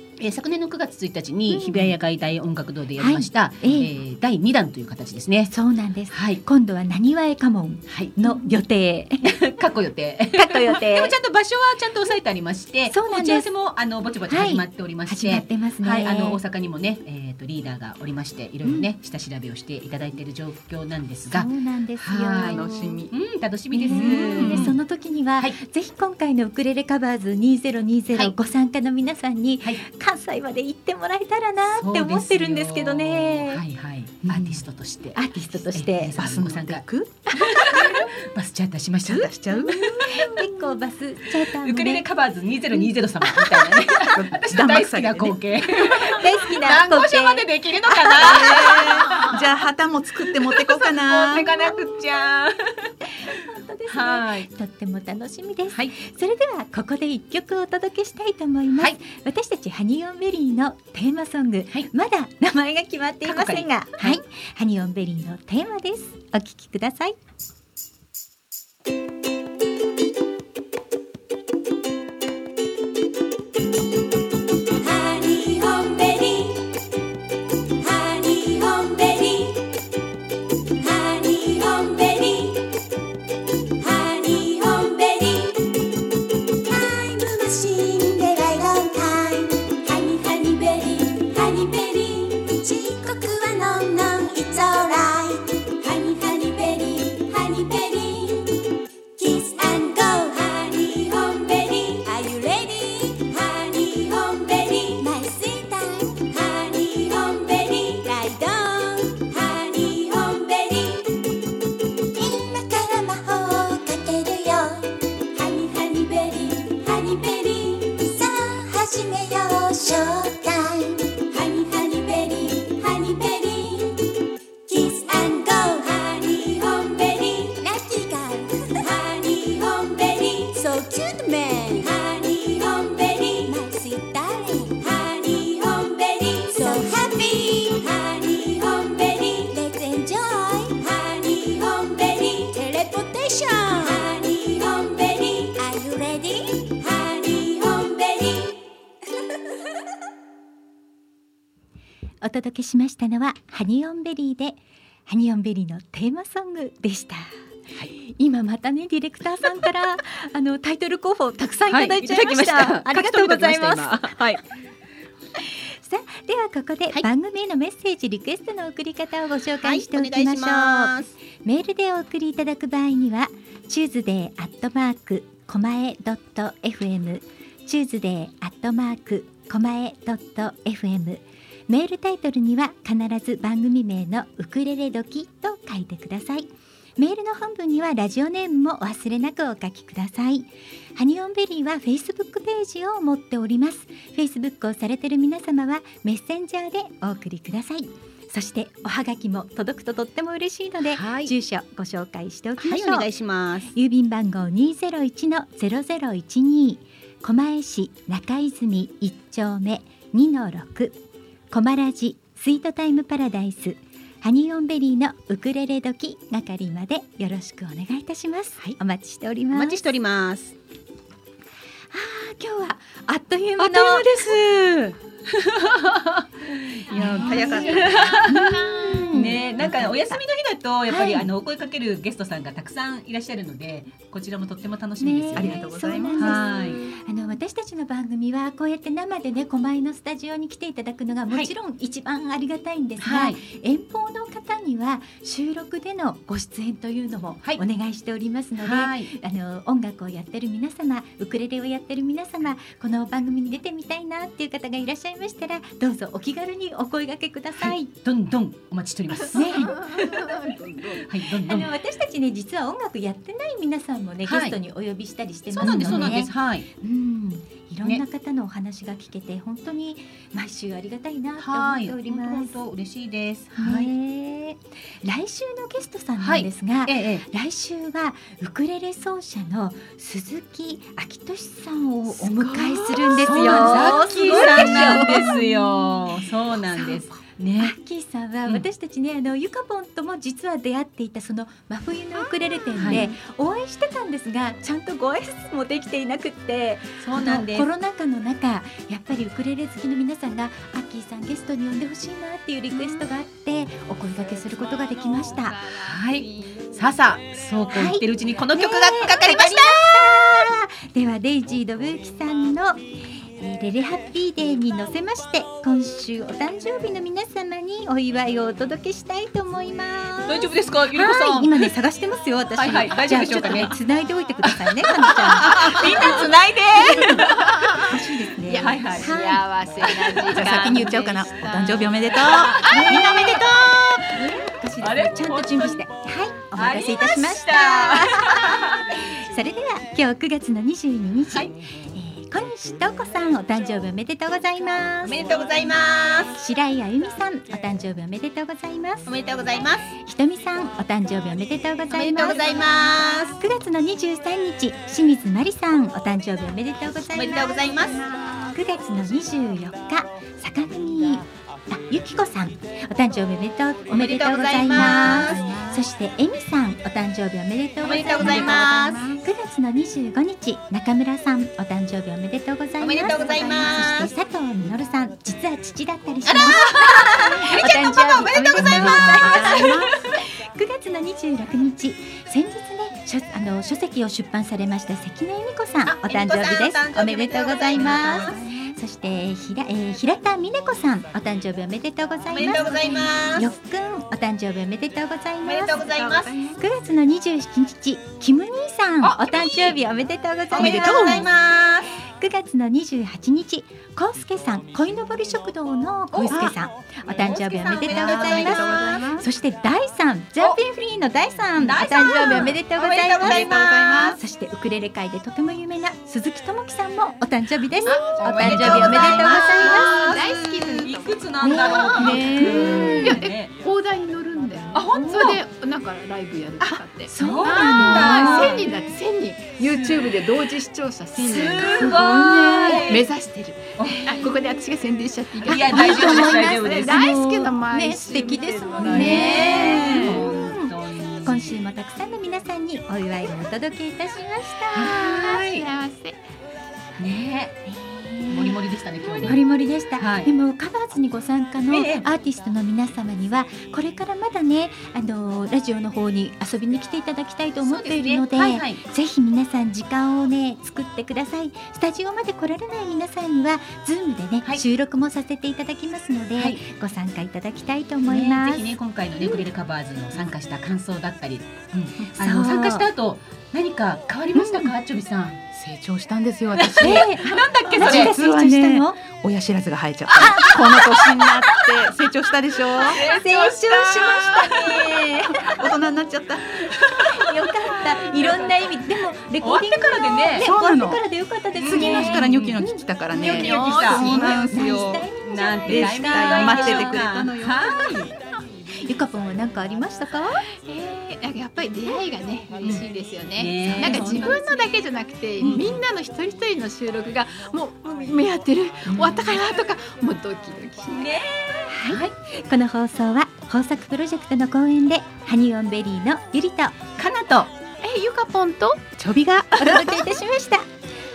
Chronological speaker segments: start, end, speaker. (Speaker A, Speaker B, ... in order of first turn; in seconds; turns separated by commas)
Speaker A: 0.2-5.5, Speaker B: 1.5-1.9, Speaker B: 3.0-3.9, Speaker B: 5.5-9.3, Speaker A: 6.1-6.4, Speaker A: 7.9-8.5, Speaker A: 9.2-24.8, Speaker B: 10.3-11.2, Speaker B: 12.9-13.5, Speaker B: 14.3-16.4, Speaker B: 21.3-23.0, Speaker C: 22.4-23.1, Speaker B: 23.7-33.6, Speaker C: 23.9-24.8, Speaker A: 31.7-36.8, Speaker C: 34.3-34.6, Speaker B: 35.1-36.2, Speaker C: 36.2-37.2, Speaker A: 37.4-40.5, Speaker B: 37.7-38.1, Speaker C: 39.0-39.8, Speaker B: 39.5-42.0, Speaker A: 41.5-49.4, Speaker B: 42.8-43.6, Speaker C: 44.3-45.4, Speaker B: 46.0-47.5, Speaker C: 48.1-51.5, Speaker B: 48.1-49.0, Speaker A: 50.4-52.9, Speaker B: 51.6-52.0, Speaker B: 53.2-67.2, Speaker A: 53.9-54.5, Speaker A: 63.2-64.2, Speaker D: 74.8-76.7, Speaker D: 77.8-79.7, Speaker D: 80.8-82.7, Speaker D: 83.8-85.8, Speaker D: 86.6-98.5, Speaker D: 99.2-111.2, Speaker D: 112.2-124.0, Speaker B: 112.2-113.3, Speaker D: 124.7-148.6, Speaker B: 152.2-157.3, Speaker B: 158.0-164.2, Speaker A: 161.7-164.4, Speaker B: 165.4-203.1, Speaker A: 169.6-171.2, Speaker A: 200.9-201.3, Speaker A: 202.6-203.7, Speaker B: 203.7-211.0, Speaker B: 211.5-219.8, Speaker A: 219.5-220.6, Speaker B: 221.9-224.4, Speaker A: 223.6-235.6, Speaker C: 226.9-227.8, Speaker B: 226.9-230.2, Speaker E: 227.1-228.3, Speaker B: 230.9-231.3, Speaker B: 235.0-257.9, Speaker C: 235.3-236.4, Speaker A: 236.2-236.8, Speaker A: 243.0-243.4, Speaker A: 248.6-249.1, Speaker A: 257.6-260.4, Speaker B: 259.3-259.8, Speaker E: 259.7-261.1, Speaker A: 261.0-261.7, Speaker B: 261.5-272.6, Speaker A: 264.3-264.6, Speaker A: 265.5-266.7, Speaker A: 271.4-273.9, Speaker B: 273.6-286.0, Speaker A: 276.2-277.3, Speaker A: 282.1-287.8, Speaker E: 283.1-285.4, Speaker B: 286.7-287.0, Speaker B: 287.6-305.6, Speaker A: 292.8-293.1, Speaker A: 297.0-297.7, Speaker E: 302.7-303.1, Speaker E: 304.2-306.7, Speaker A: 305.8-310.5, Speaker B: 307.7-312.8, Speaker B: 313.4-327.2, Speaker A: 320.3-321.7, Speaker A: 322.6-323.8, Speaker A: 324.4-327.9, Speaker C: 327.9-328.7, Speaker E: 328.4-333.0, Speaker A: 328.5-329.1, Speaker B: 329.0-329.5, Speaker A: 329.9-330.2, Speaker C: 330.3-333.4, Speaker A: 332.2-334.1, Speaker B: 332.6-345.2, Speaker A: 334.8-335.8, Speaker A: 336.6-338.8, Speaker A: 345.0-346.3, Speaker B: 346.3-349.1, Speaker A: 349.1-349.9, Speaker B: 349.9-352.7, Speaker A: 351.9-353.4, Speaker B: 353.4-395.9, Speaker A: 357.1-358.0, Speaker A: 363.9-365.4, Speaker C: 365.0-365.8, Speaker A: 367.8-369.0, Speaker A: 372.8-374.1, Speaker A: 376.2-379.9, Speaker C: 378.6-379.9, Speaker A: 385.9-388.4, Speaker A: 392.3-393.5, Speaker A: 395.4-396.4, Speaker E: 395.8-396.6, Speaker B: 396.6-401.3, Speaker A: 399.0-399.8, Speaker A: 400.5-401.9, Speaker C: 400.6-401.3, Speaker B: 402.1-419.9, Speaker A: 406.1-406.6, Speaker A: 407.1-409.0, Speaker C: 407.9-409.2, Speaker A: 411.6-414.2, Speaker C: 413.3-414.2, Speaker A: 417.9-423.6, Speaker E: 418.2-421.1, Speaker C: 418.3-419.4, Speaker B: 421.4-423.2, Speaker E: 421.7-440.3, Speaker A: 424.7-425.4, Speaker B: 424.9-425.3, Speaker B: 427.1-428.6, Speaker A: 427.2-428.7, Speaker A: 429.6-430.2, Speaker A: 431.2-433.1, Speaker B: 431.5-433.0, Speaker A: 433.8-434.3, Speaker A: 435.4-437.2, Speaker B: 435.5-445.1, Speaker A: 438.8-441.6, Speaker A: 444.8-445.7, Speaker E: 444.8-446.2, Speaker A: 447.0-447.6, Speaker B: 447.7-448.6, Speaker A: 448.3-449.4, Speaker B: 449.2-468.6, Speaker A: 450.0-450.3, Speaker A: 451.7-452.1, Speaker A: 457.6-458.8, Speaker A: 468.1-475.4, Speaker B: 472.2-472.9, Speaker B: 474.4-474.7, Speaker C: 475.5-477.1, Speaker A: 476.6-478.1, Speaker B: 476.8-479.0, Speaker C: 477.7-483.0, Speaker B: 480.2-480.6, Speaker A: 480.3-481.3, Speaker A: 482.8-485.8, Speaker B: 482.9-485.7, Speaker C: 485.5-486.5, Speaker A: 486.6-488.8, Speaker B: 487.1-497.1, Speaker A: 489.4-490.5, Speaker C: 490.4-491.0, Speaker A: 491.6-498.1, Speaker C: 491.6-495.1, Speaker E: 493.3-494.0, Speaker C: 495.7-497.6, Speaker B: 498.8-500.4, Speaker E: 500.6-511.1, Speaker A: 503.4-504.4, Speaker B: 503.8-504.2, Speaker A: 505.4-505.7, Speaker A: 510.9-512.1, Speaker B: 511.7-516.8, Speaker A: 517.0-517.5, Speaker E: 517.8-518.9, Speaker C: 519.0-520.0, Speaker B: 519.6-520.7